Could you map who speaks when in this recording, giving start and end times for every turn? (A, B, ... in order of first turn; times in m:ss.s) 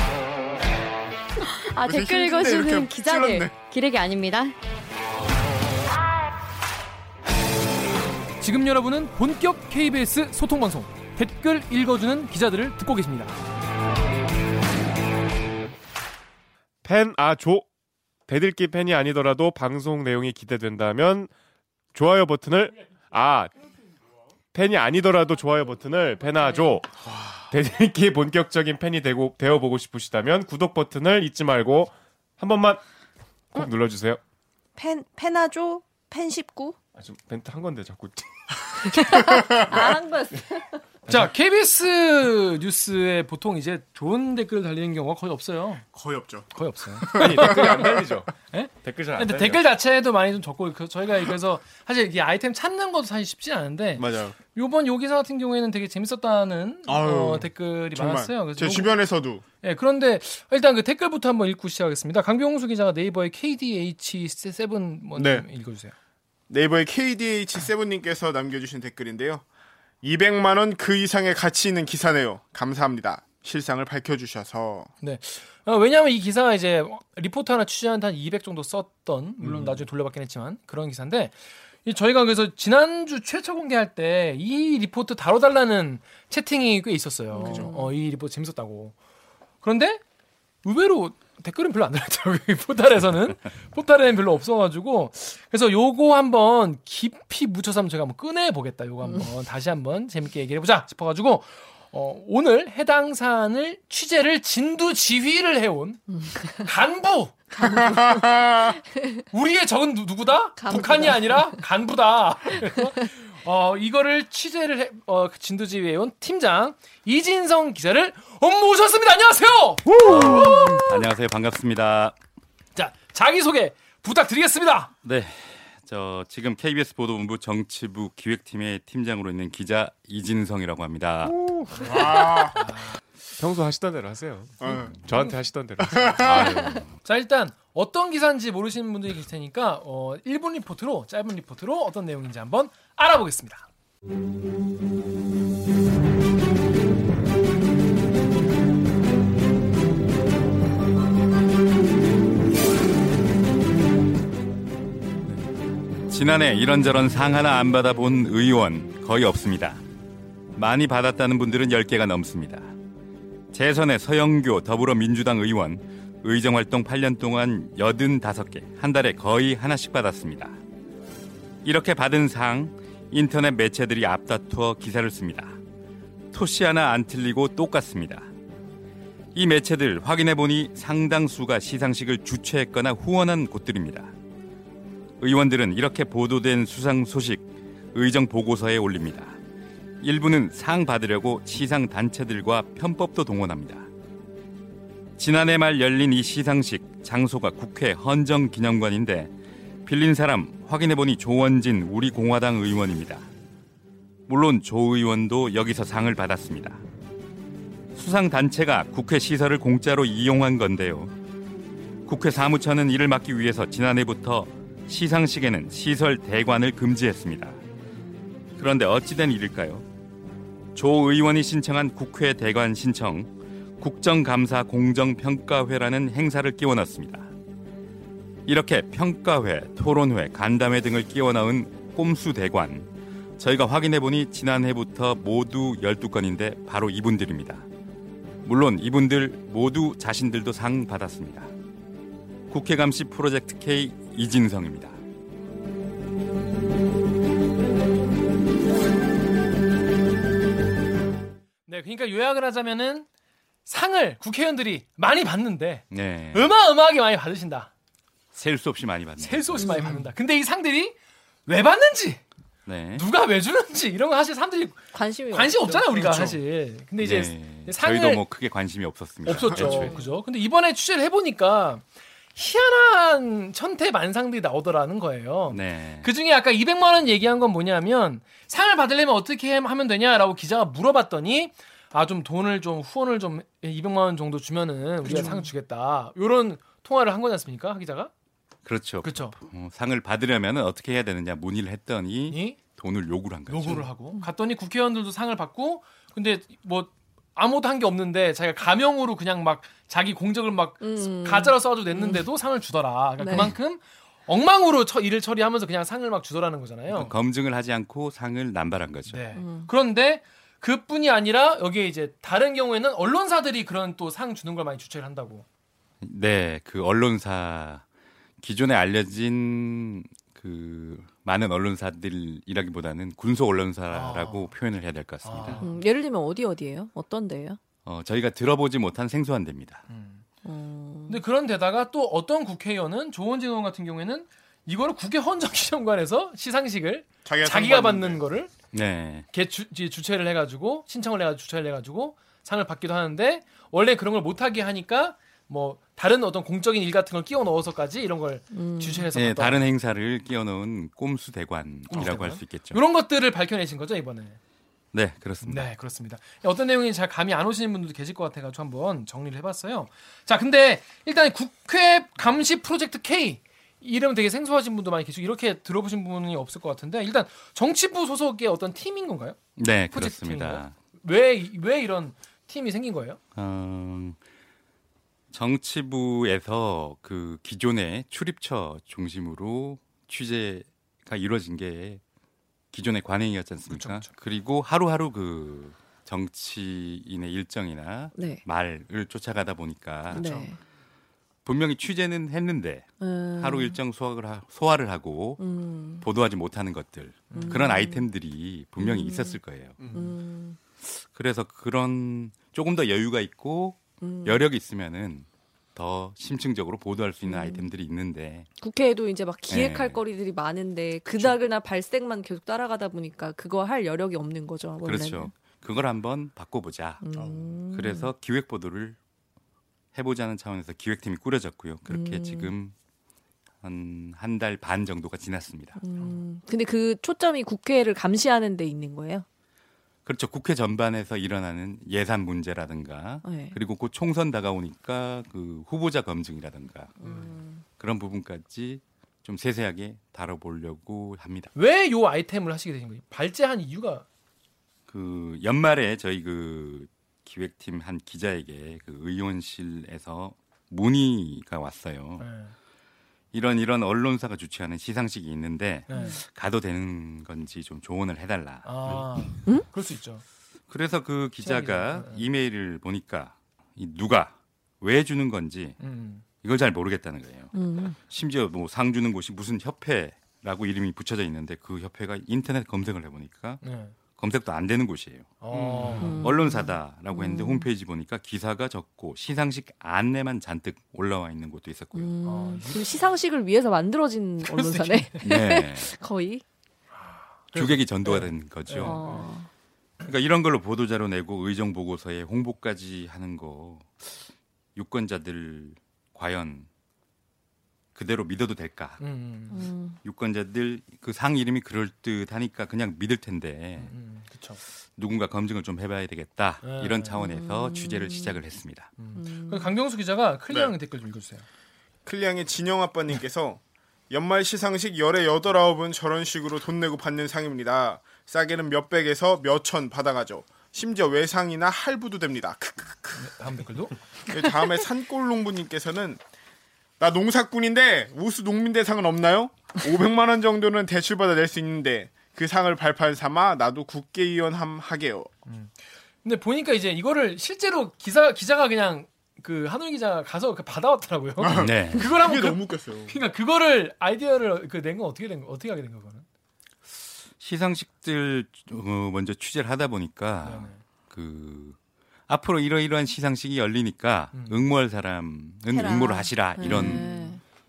0:01.7-0:04.5 A
0:01.8-0:03.5 B
0:08.4-0:13.4 C
0:16.8-0:17.6 D
0:18.3-0:21.3 D
0:21.9-0:23.5 D
0:24.5-0:26.9 D
0:27.1-0:27.4 B
0:27.5-0:32.8 D
0:33.5-0:34.2 D
0:34.8-0:36.8 E
0:36.9-0:39.7 D
0:38.9-0:40.8 E
0:41.1-0:45.8 C
0:45.9-0:46.5 B
0:46.5-0:59.0 C
0:47.0-0:48.0 B
0:47.2-0:49.6 D
0:54.0-0:54.4 B
0:56.9-0:59.4 B
0:59.6-1:05.9 C
1:05.2-1:05.4 B
1:06.5-1:09.4 B
1:10.0-1:14.9 B
1:15.0-1:28.9 C
1:27.3-1:27.9 E
1:29.6-1:30.0 C
1:30.6-1:47.3 C
1:46.2-1:46.6 E
1:47.6-1:48.8 B
1:49.3-2:00.9 C
1:50.6-1:51.5 E
2:00.0-2:02.2 F
2:00.2-2:00.8 E
2:02.8-2:04.9 C
2:05.0-2:11.4 F
2:11.2-2:12.3 D
2:11.8-2:12.6 B
2:12.5-2:13.0 C
2:13.4-2:16.8 D
2:14.6-2:15.0 B
2:15.8-2:16.6 B
2:16.2-2:16.8 F
2:17.0-2:23.7 C
2:36.1-2:39.8 F
2:40.5-2:42.7 F
2:43.5-2:50.6 F
2:51.6-2:55.6 F
2:56.3-2:58.3 F
2:59.3-3:04.1 F
3:05.2-3:09.4 F
3:10.0-3:13.9 F
3:15.2-3:19.3 F
3:19.8-3:23.2 F
3:24.3-3:26.8 F
3:27.9-3:31.1 F
3:32.0-3:37.6 F
3:38.6-3:39.8 F
3:40.7-3:47.3 F
3:48.4-3:52.9 F
3:53.4-3:57.7 F
3:58.4-4:01.5 F
4:02.5-4:05.0 F
4:11.6-4:13.1 C
4:13.6-4:17.7 C
4:15.9-4:16.5 F
4:18.3-4:19.8 F
4:19.2-4:22.2 C
4:19.6-4:20.0 E
4:22.6-4:23.0 F
4:22.9-4:28.2 C
4:24.9-4:26.3 E
4:27.0-4:30.0 F
4:29.2-4:31.8 C
4:29.7-4:30.0 E
4:32.3-4:48.1 C
4:35.5-4:36.1 F
4:45.0-4:45.5 E
4:48.6-4:53.9 F
4:49.0-4:49.4 C
4:52.3-4:52.6 C
4:53.5-5:07.1 C
5:00.8-5:02.2 E
5:03.2-5:03.5 E
5:06.9-5:09.2 F
5:09.1-5:15.4 C
5:09.3-5:09.7 E
5:16.0-5:17.8 F
5:18.4-5:25.6 F
5:23.9-5:24.5 C
5:25.2-5:25.7 C
5:25.6-5:27.6 E
5:27.8-5:29.8 F
5:29.9-5:30.2 C
5:30.4-5:31.2 E
5:31.1-5:38.5 C
5:37.2-5:38.2 B
5:38.7-5:39.2 F
5:39.3-5:49.7 C
5:48.5-5:49.1 E
5:49.1-5:52.8 F
5:51.9-5:54.4 C
5:54.9-5:55.6 F
5:55.4-6:09.4 C
6:09.6-6:10.7 F
6:09.9-6:13.2 C
6:13.4-6:14.2 F
6:15.3-6:22.0 F
6:22.7-6:30.2 F
6:23.7-6:24.1 C
6:28.1-6:28.4 E
6:30.1-6:30.4 B
6:30.1-6:30.6 E
6:31.4-6:35.4 F
6:33.0-6:33.8 E
6:35.4-6:36.1 E
6:36.0-6:39.8 F
6:37.3-6:37.6 C
6:37.3-6:38.0 E
6:38.8-6:39.4 E
6:39.8-6:40.1 B
6:39.9-6:40.6 E
6:40.8-6:48.5 F
6:44.0-6:44.4 E
6:47.2-6:47.7 E
6:48.6-6:55.3 E
6:49.5-6:50.0 F
6:54.8-6:57.0 F
6:57.0-6:58.1 E
6:57.1-6:57.6 B
6:57.7-6:59.0 F
6:59.9-7:02.7 F
7:01.9-7:02.5 E
7:03.6-7:05.8 F
7:05.8-7:09.2 E
7:10.0-7:17.0 F
7:13.2-7:13.6 E
7:17.0-7:17.6 E
7:17.8-7:21.5 F
7:21.5-7:24.0 C
7:24.9-7:32.3 F
7:32.2-7:32.5 C
7:33.3-7:39.0 F
7:35.9-7:36.2 C
7:35.9-7:36.2 E
7:38.6-7:40.2 C
7:40.7-7:45.8 F
7:41.4-7:42.2 C
7:45.8-7:46.2 C
7:46.4-7:47.5 F
7:47.5-7:48.0 E
7:48.1-7:53.6 F
7:53.6-7:53.9 C
7:54.2-7:55.3 F
7:55.4-7:56.2 C
7:55.5-7:56.2 B
7:56.0-7:57.7 E
7:56.2-8:02.1 F
8:01.9-8:06.4 E
8:02.2-8:03.0 C
8:04.4-8:05.2 C
8:05.2-8:05.9 F
8:07.0-8:09.3 C
8:07.5-8:09.2 F
8:08.7-8:09.5 E
8:10.0-8:16.7 F
8:17.9-8:19.0 F
8:19.0-8:19.7 C
8:19.5-8:20.0 E
8:20.0-8:23.9 F
8:23.8-8:24.6 C
8:24.9-8:28.9 F
8:26.6-8:27.1 C
8:27.2-8:28.4 E
8:29.0-8:31.4 C
8:29.1-8:29.7 E
8:32.0-8:43.4 B
8:43.2-8:44.0 C
8:44.3-8:46.2 B
8:47.0-8:55.3 B
8:55.4-9:06.2 C
9:01.4-9:03.2 B
9:01.6-9:02.1 F
9:07.4-9:11.8 F
9:10.4-9:10.8 C
9:12.3-9:17.1 F
9:14.3-9:14.6 C
9:15.7-9:17.4 E
9:16.6-9:17.3 C